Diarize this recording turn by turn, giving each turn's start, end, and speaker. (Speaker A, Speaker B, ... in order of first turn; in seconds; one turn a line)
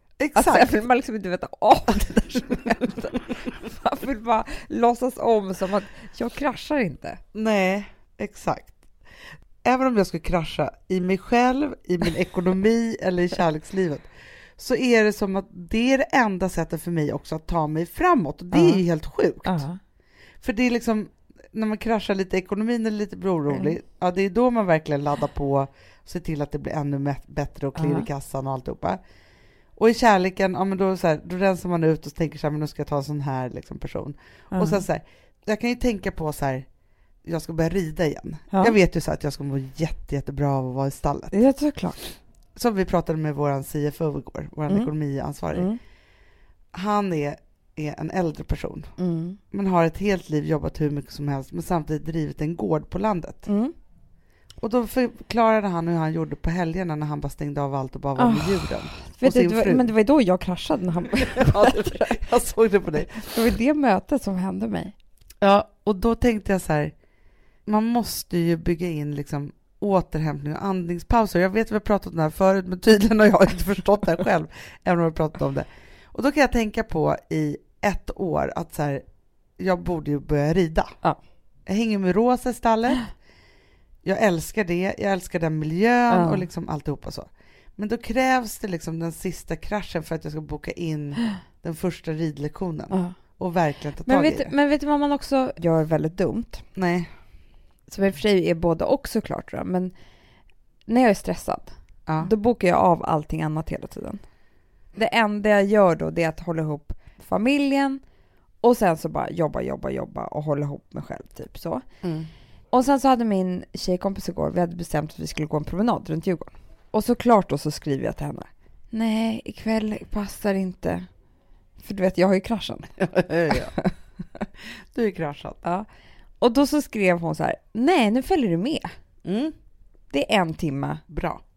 Speaker A: 0.2-0.8
Speaker B: 0.3-7.2
Speaker A: 7.3-8.8
Speaker A: 9.6-19.6
Speaker B: 18.5-18.8
Speaker B: 19.4-19.8
Speaker A: 20.4-29.0
Speaker B: 27.8-28.1
Speaker A: 29.8-36.6
Speaker B: 34.5-34.8
Speaker A: 37.2-41.4
Speaker B: 41.3-42.1
Speaker A: 42.5-45.7
Speaker B: 45.5-45.8
Speaker A: 46.7-48.9
Speaker B: 49.0-49.4
Speaker A: 49.5-53.5
Speaker B: 53.5-53.7
Speaker A: 54.6-59.9
Speaker B: 58.1-62.2
Speaker A: 61.2-63.4
Speaker B: 63.1-64.9
Speaker A: 65.4-66.9
Speaker A: 67.7-79.0
Speaker A: 79.6-80.9
Speaker A: 81.7-83.1
Speaker A: 84.0-94.5
Speaker B: 86.1-86.5
Speaker B: 92.9-93.2
Speaker B: 94.0-96.6
Speaker A: 96.8-97.1
Speaker B: 97.9-99.9
Speaker B: 100.9-104.2
Speaker B: 104.9-108.0
Speaker B: 108.6-111.8
Speaker A: 112.0-112.3
Speaker B: 112.7-121.1
Speaker B: 121.8-122.9
Speaker A: 123.0-123.7
Speaker B: 123.5-123.9
Speaker A: 124.9-125.6
Speaker B: 126.4-128.9
Speaker A: 129.2-129.5
Speaker B: 130.1-131.0
Speaker A: 131.1-131.4